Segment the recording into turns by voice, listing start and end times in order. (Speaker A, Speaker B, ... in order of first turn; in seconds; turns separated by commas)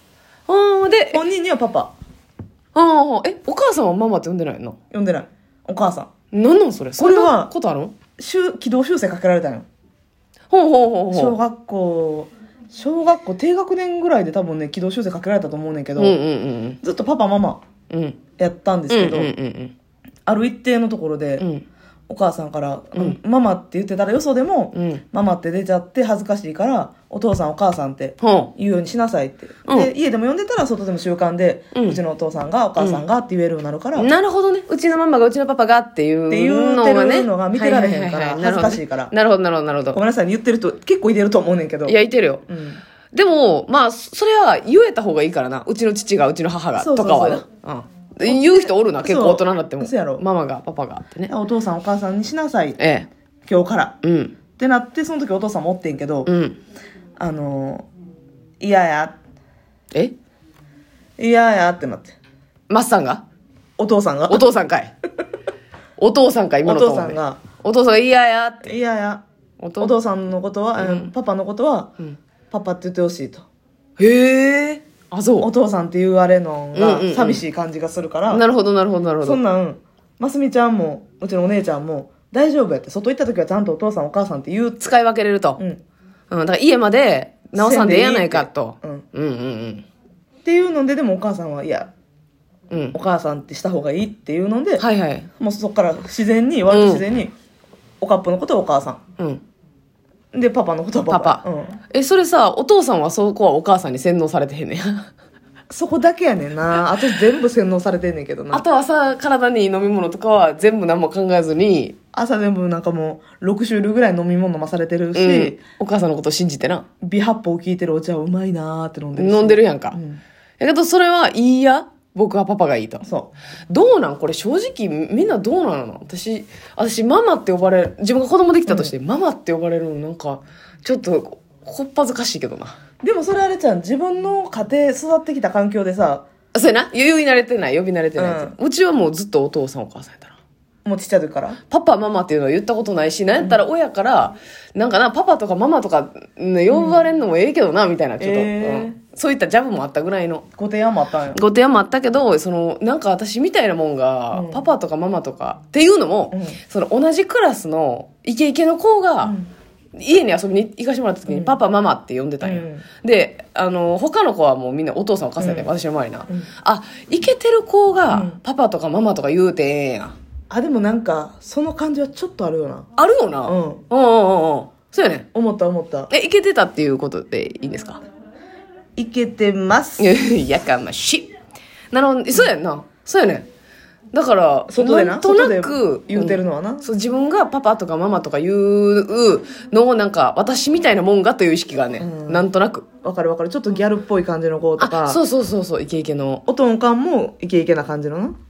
Speaker A: 0.5-1.2, Speaker B: 1.1-1.9, Speaker A: 2.7-4.8, Speaker B: 4.9-6.1, Speaker A: 6.3-7.9, Speaker B: 7.0-7.5, Speaker B: 8.2-9.7, Speaker A: 10.5-11.3, Speaker B: 11.1-16.2, Speaker A: 16.0-16.8, Speaker B: 16.8-17.6, Speaker A: 17.9-18.2, Speaker B: 18.4-19.3, Speaker A: 18.9-19.7, Speaker B: 20.2-21.4, Speaker A: 21.4-21.6, Speaker B: 22.1-34.1, Speaker A: 24.7-25.0, Speaker A: 28.2-28.5, Speaker A: 29.6-29.9, Speaker A: 31.7-32.0, Speaker A: 34.0-40.0, Speaker B: 36.3-39.1, Speaker B: 39.9-42.8, Speaker A: 41.9-42.5, Speaker A: 43.1-51.3, Speaker B: 46.8-47.4, Speaker B: 48.2-50.2, Speaker B: 51.3-52.8, Speaker A: 52.8-53.1, Speaker B: 53.5-54.0, Speaker A: 54.0-54.4, Speaker B: 54.6-56.3, Speaker A: 56.2-56.6, Speaker B: 57.2-57.9, Speaker B: 58.6-59.2, Speaker B: 61.2-62.2, Speaker A: 62.7-63.2, Speaker B: 63.8-64.5, Speaker A: 64.3-64.9, Speaker A: 66.0-68.7, Speaker B: 66.6-67.4, Speaker B: 68.6-69.2, Speaker A: 69.6-69.9, Speaker B: 69.8-71.9, Speaker A: 70.8-71.1, Speaker B: 72.5-73.5, Speaker A: 74.0-75.5, Speaker B: 75.4-78.4, Speaker A: 76.7-77.4, Speaker A: 78.3-79.4, Speaker B: 79.2-84.8, Speaker A: 84.8-85.6, Speaker A: 86.3-89.8, Speaker B: 87.5-89.0, Speaker B: 90.4-91.9, Speaker A: 92.7-93.0, Speaker B: 92.9-94.8, Speaker A: 94.8-95.3, Speaker B: 95.4-97.3, Speaker A: 96.7-97.0, Speaker B: 98.0-99.0, Speaker B: 100.3-101.8, Speaker A: 101.0-105.1, Speaker B: 105.7-108.6, Speaker A: 108.5-112.0, Speaker B: 112.1-115.6, Speaker A: 115.1-116.8, Speaker B: 117.0-120.2, Speaker A: 119.1-120.0, Speaker A: 120.6-123.1, Speaker B: 123.0-123.3, Speaker A: 123.7-132.7, Speaker B: 128.7-128.9, Speaker B: 133.0-136.2, Speaker A: 136.5-140.3, Speaker B: 138.2-138.6, Speaker B: 140.8-141.6, Speaker A: 141.7-150.4, Speaker B: 146.7-147.0, Speaker B: 148.2-149.0, Speaker B: 150.6-151.4, Speaker A: 151.3-159.4, Speaker B: 154.3-154.7, Speaker B: 156.3-156.6, Speaker B: 159.2-159.5, Speaker A: 159.9-170.1, Speaker B: 161.3-161.6, Speaker B: 162.4-162.8, Speaker B: 165.4-165.7, Speaker B: 168.1-168.4, Speaker B: 170.5-172.9, Speaker A: 172.9-175.3, Speaker B: 173.4-173.8, Speaker B: 175.3-176.1, Speaker A: 176.1-178.0, Speaker B: 178.9-180.2, Speaker A: 180.0-181.3, Speaker A: 181.9-183.5, Speaker A: 184.1-192.8, Speaker B: 184.7-186.9, Speaker B: 192.0-192.5, Speaker B: 193.0-195.2, Speaker A: 194.8-196.4, Speaker B: 196.5-198.3